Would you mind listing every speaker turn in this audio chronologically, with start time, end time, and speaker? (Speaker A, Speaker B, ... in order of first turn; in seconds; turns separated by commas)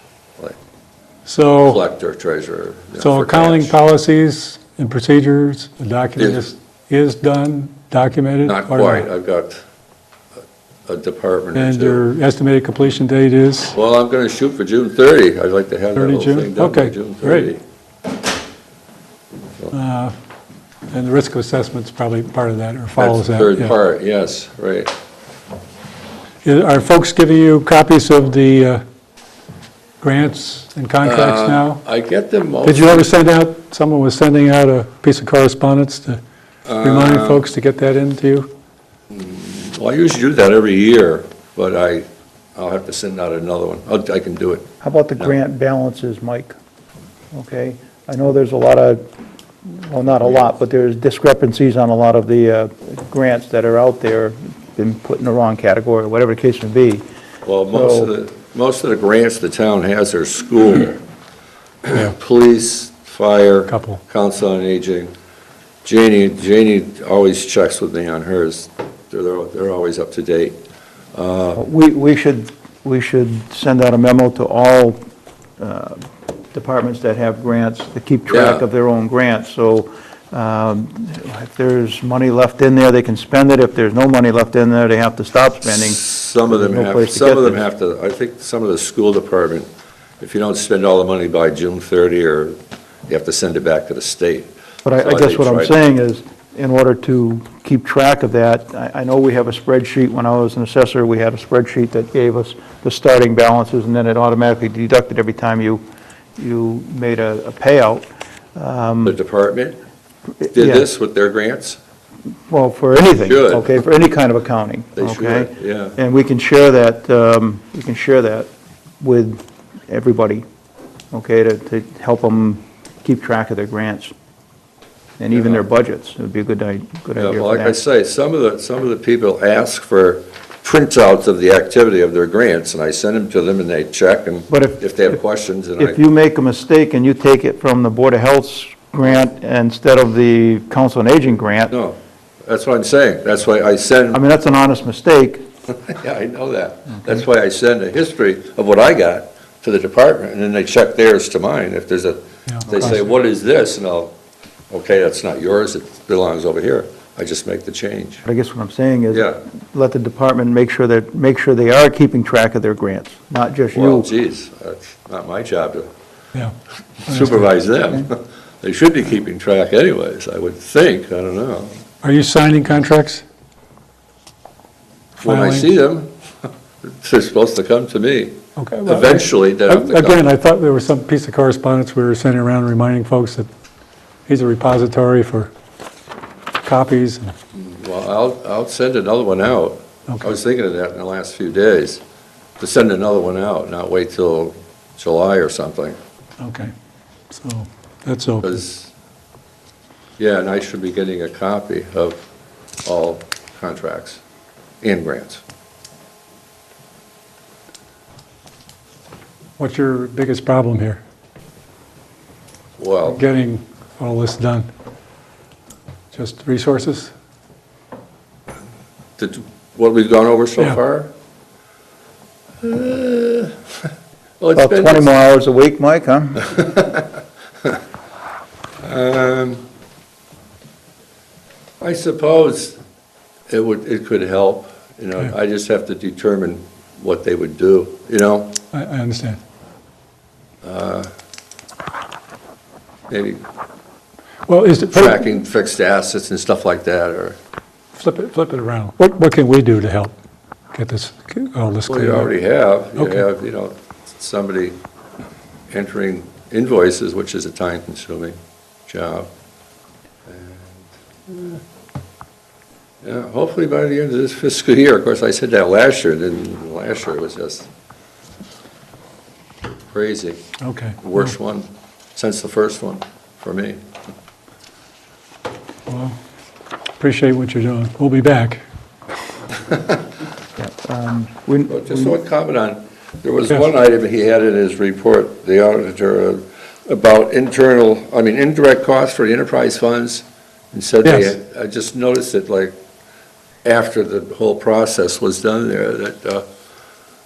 Speaker A: 1.3-1.8, Speaker B: 1.6-3.8, Speaker A: 3.0-9.1, Speaker B: 6.2-6.5, Speaker B: 8.4-9.6, Speaker B: 10.9-12.1, Speaker A: 11.6-13.8, Speaker B: 13.7-17.6, Speaker A: 16.0-17.5, Speaker A: 19.7-20.1, Speaker A: 20.9-23.7, Speaker B: 23.0-24.9, Speaker A: 26.4-28.8, Speaker A: 30.0-31.8, Speaker B: 31.0-33.1, Speaker A: 32.6-36.2, Speaker B: 36.7-37.5, Speaker A: 36.8-38.5, Speaker B: 39.1-45.3, Speaker C: 44.8-46.5, Speaker C: 47.3-49.0, Speaker C: 49.7-57.0, Speaker B: 57.4-61.0, Speaker C: 57.7-58.1, Speaker B: 61.9-65.1, Speaker A: 63.7-64.0, Speaker B: 65.8-70.6, Speaker B: 71.1-71.6, Speaker C: 71.6-75.0, Speaker C: 75.6-76.0, Speaker C: 76.5-87.7, Speaker B: 78.3-78.7, Speaker B: 85.8-89.7, Speaker B: 90.2-92.6, Speaker B: 93.1-94.5, Speaker C: 94.8-105.8, Speaker B: 95.0-95.7, Speaker C: 106.4-109.2, Speaker B: 109.0-109.8, Speaker C: 110.4-110.9, Speaker B: 110.5-111.8, Speaker C: 112.5-118.5, Speaker B: 113.2-113.7, Speaker B: 115.0-116.0, Speaker C: 119.0-120.4, Speaker C: 121.1-124.1, Speaker C: 125.2-127.8, Speaker B: 125.3-125.6, Speaker B: 127.2-136.0, Speaker C: 134.5-135.1, Speaker C: 135.8-141.7, Speaker B: 141.7-144.2, Speaker C: 144.1-145.4, Speaker B: 145.7-154.1, Speaker A: 152.5-152.9, Speaker B: 154.7-158.2, Speaker C: 158.2-164.1, Speaker B: 159.1-159.4, Speaker B: 163.7-165.9, Speaker B: 167.1-171.8, Speaker A: 167.1-167.5, Speaker A: 172.0-173.2, Speaker B: 175.2-180.3, Speaker A: 175.2-175.7, Speaker A: 178.6-183.5, Speaker A: 184.3-185.5, Speaker A: 186.6-187.3, Speaker B: 187.5-192.0, Speaker B: 192.6-196.0, Speaker A: 196.4-196.7, Speaker A: 197.3-198.6, Speaker B: 198.4-198.9, Speaker B: 200.2-202.2, Speaker B: 202.8-204.2, Speaker B: 204.8-205.4, Speaker A: 209.6-211.0, Speaker B: 212.8-213.2, Speaker A: 213.1-214.7, Speaker A: 216.1-217.1, Speaker B: 219.2-221.1, Speaker B: 222.6-223.6, Speaker B: 224.4-225.1, Speaker C: 224.6-226.6, Speaker B: 226.6-227.0, Speaker B: 228.8-229.6, Speaker B: 231.8-232.8, Speaker B: 233.5-238.6, Speaker A: 238.7-239.4, Speaker B: 240.6-241.1, Speaker B: 243.1-243.4, Speaker A: 244.5-245.2, Speaker B: 244.9-247.4, Speaker A: 248.0-250.1, Speaker A: 250.7-252.3, Speaker B: 251.9-254.8, Speaker A: 253.0-253.2, Speaker B: 255.7-258.4, Speaker B: 258.9-259.3, Speaker B: 260.3-261.6, Speaker B: 263.0-267.7, Speaker B: 269.9-270.4, Speaker A: 270.6-271.3, Speaker B: 271.0-273.8, Speaker A: 275.9-276.2, Speaker A: 277.0-278.6, Speaker C: 280.6-282.2, Speaker B: 281.7-292.8, Speaker A: 291.1-291.4, Speaker B: 293.6-296.4